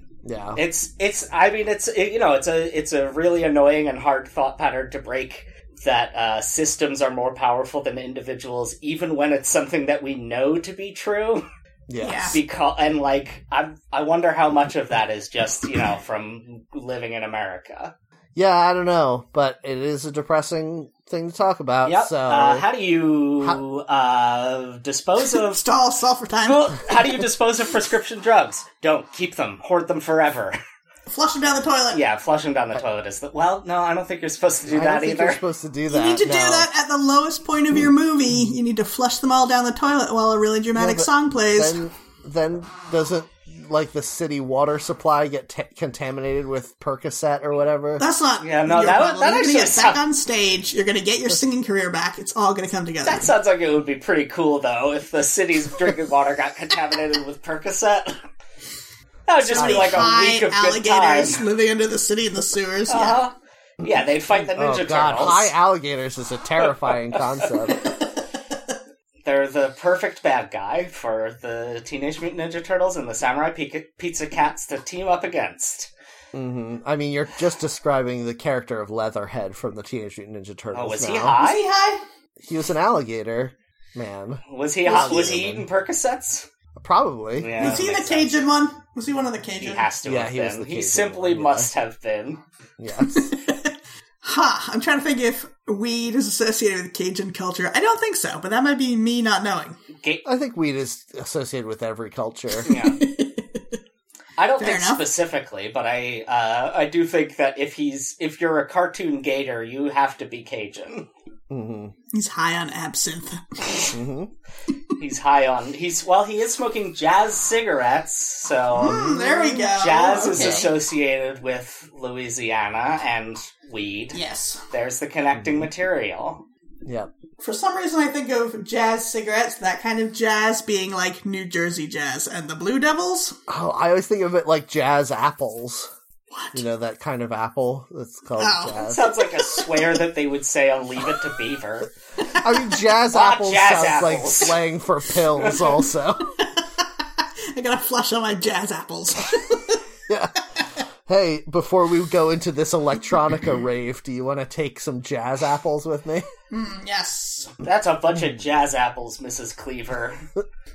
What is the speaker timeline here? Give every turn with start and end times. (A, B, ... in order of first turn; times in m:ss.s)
0:00.2-0:00.6 A
0:00.5-0:11.4 B
0:11.9-0:12.4 A
0:12.0-0:12.4 C
0:12.3-0:17.9 B
0:18.3-0:22.6 A
0:21.8-0:25.6 B
0:25.3-0:26.7 C
0:26.4-0:30.6 B
0:31.1-0:32.0 C
0:31.9-0:35.4 B
0:34.7-0:36.7 A
0:35.9-0:41.8 C
0:40.7-0:48.0 A
0:48.0-0:53.3 C
0:48.4-0:50.0 B
0:53.0-0:58.2 B
0:59.3-1:01.4 B
0:59.4-1:03.2 C
0:59.6-1:00.1 A
1:02.9-1:05.5 B
1:04.3-1:07.9 A
1:06.9-1:07.5 B
1:09.2-1:15.9 B
1:16.3-1:21.4 A
1:20.7-1:21.6 B
1:21.3-1:22.0 C
1:22.4-1:25.6 A
1:24.5-1:26.5 B
1:24.9-1:25.4 C
1:26.8-1:27.7 A
1:27.4-1:28.5 B
1:27.6-1:29.9 C
1:29.6-1:32.4 B
1:30.0-1:31.7 A
1:32.8-1:33.3 A
1:33.1-1:39.8 C
1:39.9-1:40.2 B
1:40.2-1:42.7 A
1:42.6-1:43.0 B
1:42.6-1:43.6 C
1:44.4-1:51.1 B
1:44.6-1:45.0 C
1:51.5-1:51.9 A
1:52.1-1:54.0 C
1:53.9-1:54.3 A
1:55.0-2:06.4 B
1:58.8-2:00.7 C
1:58.8-1:59.5 A
2:00.3-2:00.7 A
2:04.1-2:04.6 C
2:05.4-2:05.6 A
2:06.8-2:07.1 A
2:07.4-2:13.4 C
2:13.5-2:15.9 A
2:16.3-2:16.6 C
2:16.5-2:19.1 A
2:18.4-2:19.9 C
2:18.8-2:21.9 B
2:22.2-2:22.7 C
2:22.4-2:26.3 A
2:23.1-2:24.6 B
2:25.4-2:25.8 B
2:26.4-2:29.8 C
2:30.1-2:30.4 A
2:31.0-2:36.3 A
2:36.5-2:37.5 C
2:37.6-2:40.3 B